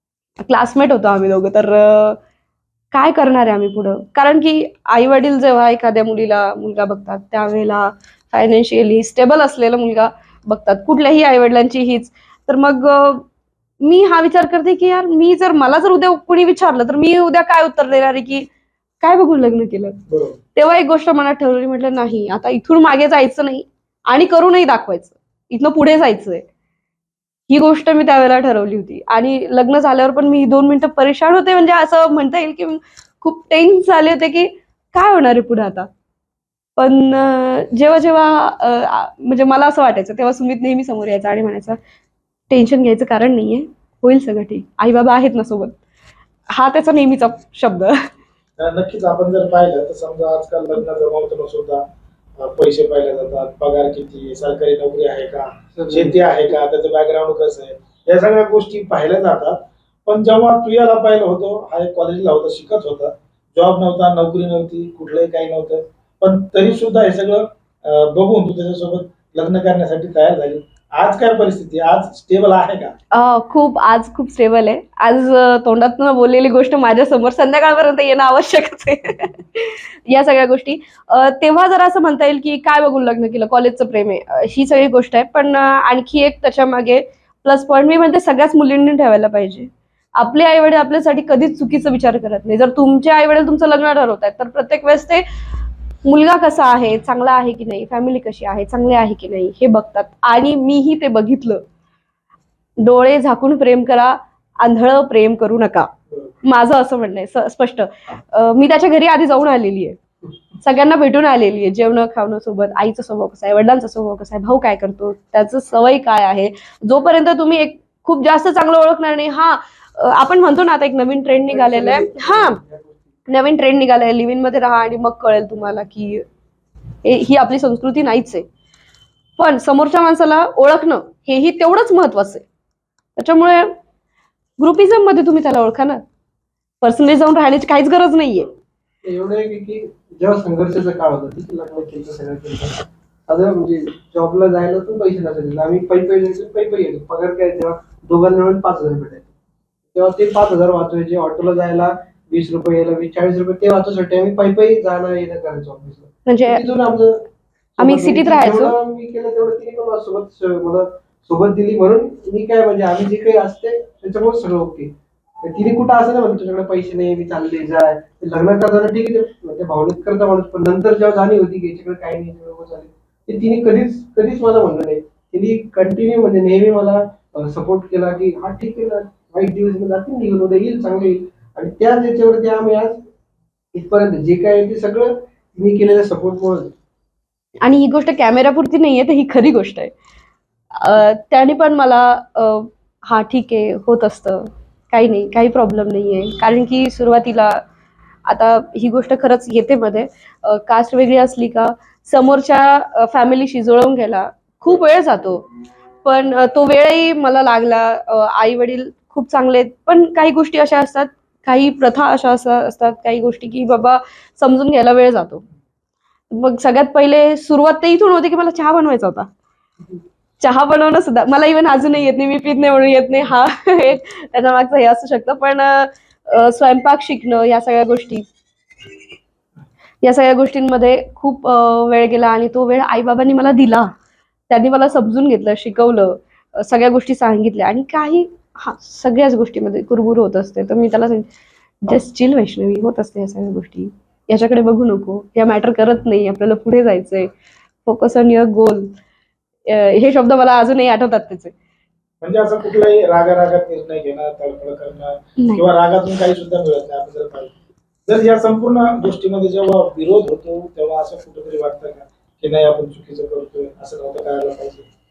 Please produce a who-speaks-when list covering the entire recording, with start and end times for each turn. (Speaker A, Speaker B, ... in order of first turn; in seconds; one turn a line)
Speaker A: 0.4-2.2
Speaker A: 2.9-13.2
Speaker A: 13.8-18.5
Speaker A: 19.0-20.0
Speaker B: 20.1-20.4
Speaker A: 20.5-26.4
Speaker A: 27.5-35.9
Speaker A: 36.8-41.8
Speaker A: 42.5-45.7
Speaker A: 46.5-48.1
Speaker B: 48.6-51.8
Speaker B: 52.4-72.9
Speaker C: 55.7-56.6
Speaker A: 73.1-95.2
Speaker A: 96.0-101.6
Speaker A: 102.8-105.9
Speaker A: 106.4-110.0
Speaker A: 110.6-122.6
Speaker C: 121.5-123.1
Speaker A: 123.3-126.2
Speaker A: 127.0-128.4
Speaker A: 129.4-132.4
Speaker A: 133.2-133.7
Speaker A: 134.6-136.0
Speaker A: 136.8-138.5
Speaker C: 139.0-142.8
Speaker C: 143.3-149.3
Speaker C: 149.9-157.2
Speaker A: 156.2-156.6
Speaker C: 157.8-164.9
Speaker A: 157.8-158.7
Speaker C: 165.4-183.0
Speaker C: 183.7-186.7
Speaker A: 187.6-189.9
Speaker A: 190.7-197.6
Speaker A: 198.3-205.4
Speaker A: 206.0-215.4
Speaker A: 216.3-219.3
Speaker A: 220.4-228.2
Speaker A: 230.0-233.9
Speaker A: 234.5-241.3
Speaker A: 241.8-247.3
Speaker A: 247.8-248.9
Speaker A: 249.7-251.5
Speaker B: 252.2-257.5
Speaker A: 255.4-255.6
Speaker B: 258.1-264.9